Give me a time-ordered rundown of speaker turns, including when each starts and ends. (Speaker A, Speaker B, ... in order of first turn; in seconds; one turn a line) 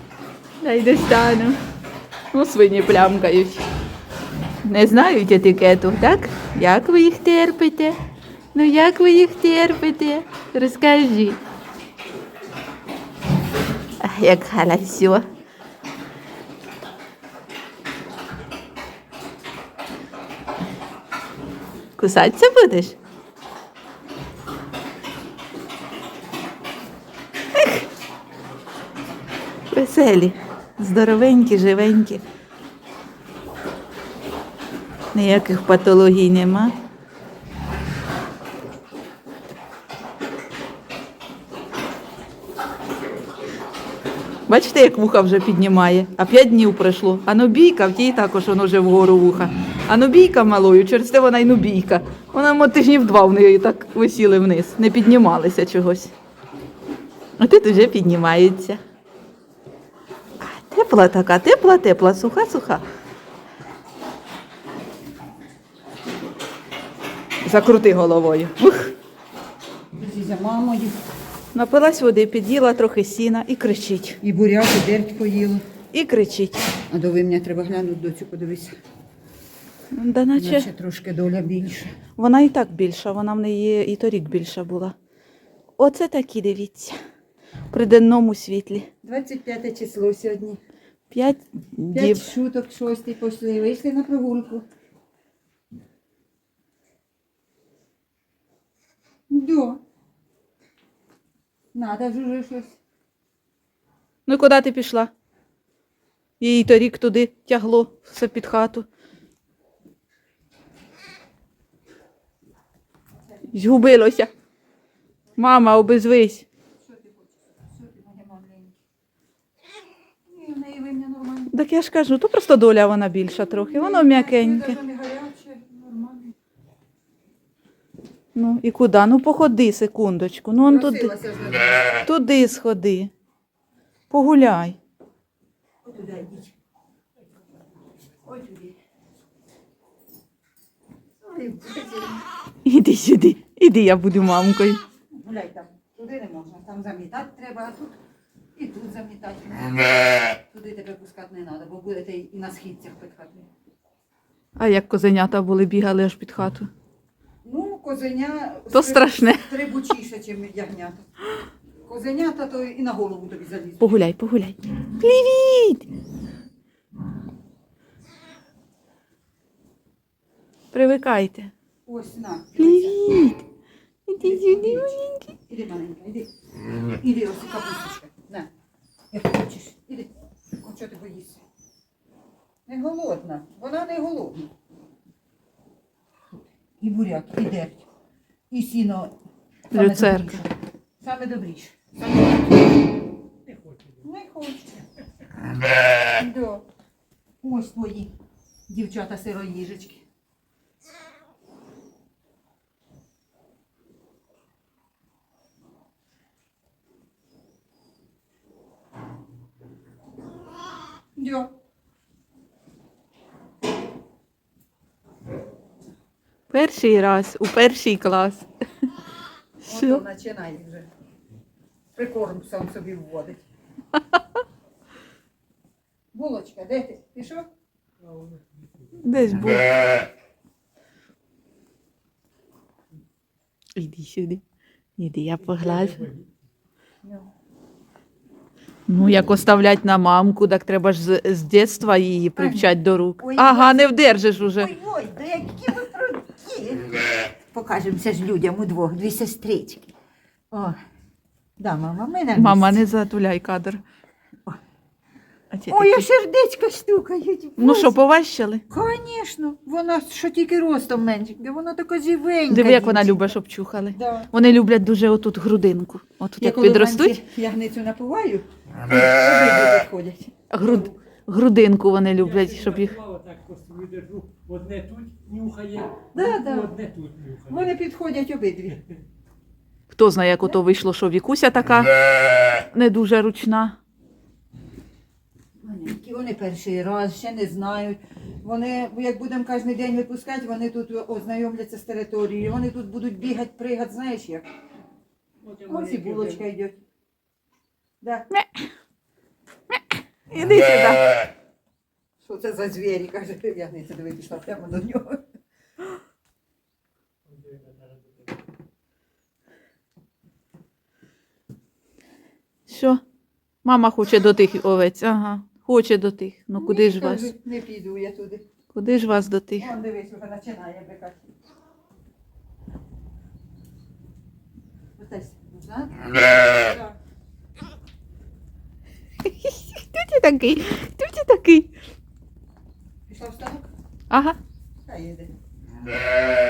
Speaker A: 0.6-1.6
Speaker A: 2.3-3.6
Speaker A: 4.6-8.0
Speaker A: 8.5-11.4
Speaker A: 14.0-15.2
Speaker A: 22.0-22.9
Speaker A: 27.5-27.8
Speaker A: 29.7-32.2
Speaker A: 35.1-36.7
Speaker A: 44.5-56.1
Speaker A: 57.4-58.8
Speaker A: 60.4-62.8
Speaker A: 67.4-68.9
Speaker B: 70.0-71.0
Speaker A: 71.5-74.2
Speaker B: 74.2-75.6
Speaker A: 75.9-76.6
Speaker B: 76.9-78.8
Speaker A: 79.9-80.7
Speaker B: 80.3-82.0
Speaker A: 82.2-84.9
Speaker A: 85.8-87.0
Speaker A: 87.7-88.9
Speaker B: 89.0-90.6
Speaker A: 91.1-92.2
Speaker B: 91.9-94.6
Speaker B: 99.3-99.8
Speaker B: 101.7-102.8
Speaker A: 104.3-105.1
Speaker A: 106.4-108.8
Speaker A: 113.5-114.3
Speaker A: 115.4-116.5
Speaker B: 116.8-118.8
Speaker B: 120.2-121.5
Speaker A: 121.5-124.8
Speaker B: 123.5-126.3
Speaker A: 128.3-131.1
Speaker B: 130.6-132.0
Speaker A: 132.0-133.1
Speaker A: 134.1-134.8
Speaker B: 135.8-136.5
Speaker B: 138.2-138.8
Speaker B: 141.2-142.2
Speaker A: 142.6-144.8
Speaker B: 145.1-148.0
Speaker B: 148.6-153.5
Speaker A: 154.6-156.7
Speaker B: 157.4-161.1
Speaker A: 158.7-159.5
Speaker B: 161.8-164.0
Speaker A: 163.8-165.9
Speaker A: 170.7-171.5
Speaker B: 171.8-173.1
Speaker A: 172.6-173.4
Speaker A: 174.1-175.3
Speaker B: 174.2-178.5
Speaker B: 179.1-181.4
Speaker B: 182.7-184.5
Speaker B: 186.8-187.8
Speaker B: 188.5-189.1
Speaker B: 189.7-190.4
Speaker A: 189.7-190.4
Speaker B: 191.0-192.8
Speaker B: 194.0-194.8
Speaker B: 196.2-196.6
Speaker B: 197.4-198.1
Speaker B: 198.7-200.0
Speaker B: 211.2-211.5
Speaker A: 216.5-218.5
Speaker B: 219.7-220.9
Speaker A: 219.7-220.0
Speaker B: 221.9-223.4
Speaker B: 226.1-227.5
Speaker C: 228.0-228.6
Speaker A: 229.0-229.8
Speaker A: 233.8-234.4
Speaker A: 235.0-236.1
Speaker B: 237.0-237.3
Speaker A: 238.9-244.7
Speaker B: 242.4-249.9
Speaker B: 250.5-250.8
Speaker B: 251.6-252.8
Speaker A: 252.3-253.8
Speaker A: 255.5-256.0
Speaker B: 255.7-258.0
Speaker A: 257.6-258.6
Speaker B: 258.7-263.4
Speaker A: 262.5-267.2
Speaker B: 263.9-264.3
Speaker B: 266.4-271.0
Speaker A: 270.5-273.0
Speaker C: 272.6-277.6
Speaker B: 276.1-276.8
Speaker B: 277.4-278.8
Speaker A: 279.9-281.9
Speaker A: 282.5-283.8
Speaker B: 285.6-294.5
Speaker C: 295.5-296.3
Speaker B: 295.6-296.8
Speaker B: 298.0-298.3
Speaker A: 300.3-301.1
Speaker B: 302.2-305.2
Speaker C: 307.5-307.7
Speaker A: 312.7-313.0
Speaker A: 313.6-317.3
Speaker B: 316.6-318.4
Speaker A: 318.7-319.7
Speaker B: 319.6-321.3
Speaker B: 325.0-326.9
Speaker A: 329.2-331.7
Speaker B: 333.1-333.7
Speaker A: 334.1-334.4
Speaker B: 334.9-335.3